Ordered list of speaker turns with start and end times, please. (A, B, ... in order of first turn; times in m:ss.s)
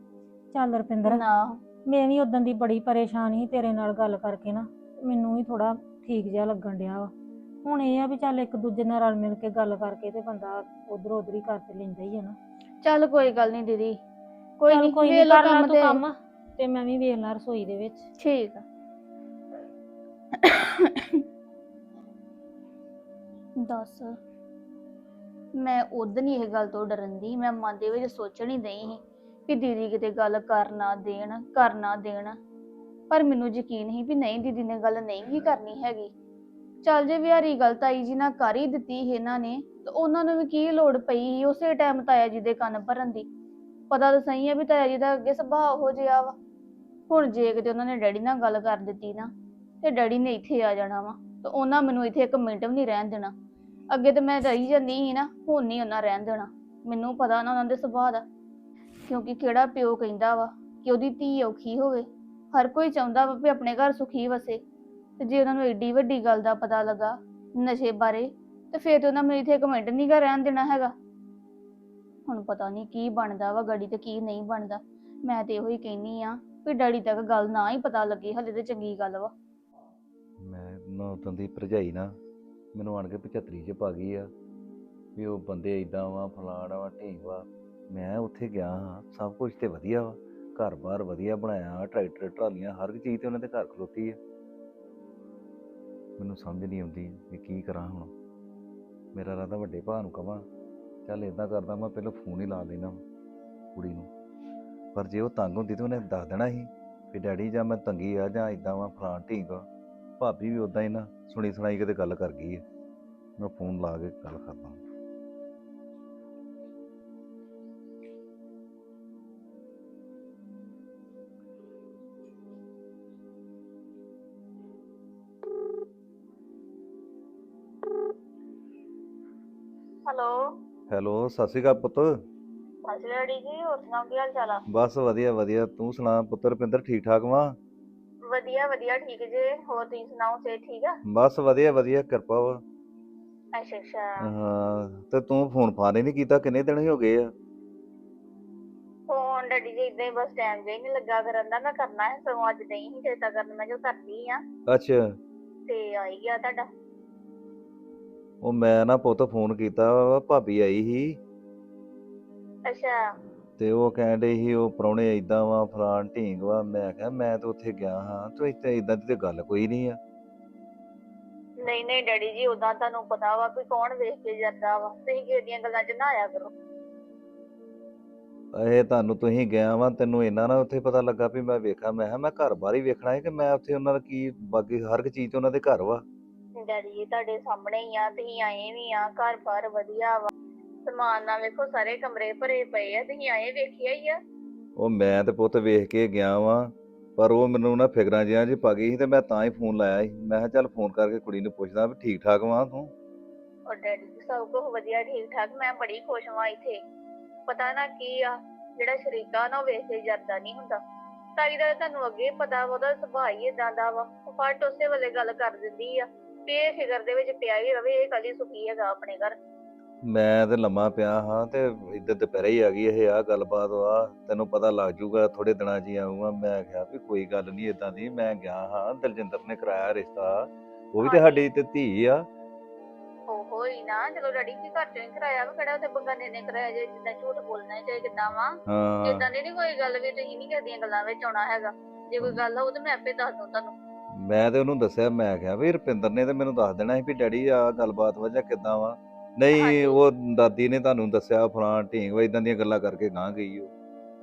0:00.5-0:01.2 A
0:01.0-0:01.6 B
0:01.9-0:07.1 A
0:07.6-0:12.4 A
0:12.8-0:14.0 B
0:14.6-0:16.0 B
0:14.7-0:18.0 A
0:18.2-0:18.6 B
0:20.4-0:21.2 B
0:23.6-0:24.1 B
0:25.5-0:32.4 B
0:33.1-0:36.1 B
0:36.8-0:43.3 B
0:43.9-0:46.3 B
0:47.1-0:53.3 B
0:53.9-0:58.2 B
0:59.1-1:04.6 B
1:05.2-1:10.9 B
1:12.3-1:19.3 B
1:20.4-1:22.1 C
1:22.7-1:24.3 C
1:25.2-1:34.2 C
1:36.2-1:38.1 C
1:39.1-1:40.4 C
1:41.0-1:43.0 C
1:43.7-1:44.1 C
1:44.9-1:49.6 C
1:50.2-1:52.6 C
1:53.4-1:54.8 C
2:10.0-2:10.6 D
2:10.9-2:12.1 C
2:12.8-2:14.6 D
2:14.7-2:17.6 C
2:18.3-2:21.0 D
2:19.1-2:20.3 B
2:21.1-2:22.6 C
2:23.5-2:24.3 D
2:24.2-2:27.3 C
2:29.1-2:34.4 D
2:34.7-2:35.1 C
2:35.6-2:36.7 D
2:38.4-2:41.2 C
2:42.6-2:43.0 D
2:43.6-2:50.0 C
2:51.6-2:56.5 D
2:58.5-3:06.0 C
3:06.6-3:10.3 D
3:10.9-3:14.2 D
3:14.8-3:22.9 C
3:23.7-3:26.4 D
3:23.8-3:26.8 B
3:27.5-3:28.4 D
3:28.8-3:29.2 B
3:29.0-3:30.8 D
3:31.4-3:39.4 D
3:40.0-3:52.2 C
3:51.0-3:51.4 D
3:53.3-3:58.5 D
3:53.4-3:56.0 B
3:57.4-3:58.5 B
3:58.7-3:59.2 C
3:59.0-3:59.4 B
3:59.4-4:01.6 D
4:00.9-4:03.7 B
4:02.5-4:03.5 D
4:04.2-4:13.7 C
4:09.5-4:10.0 D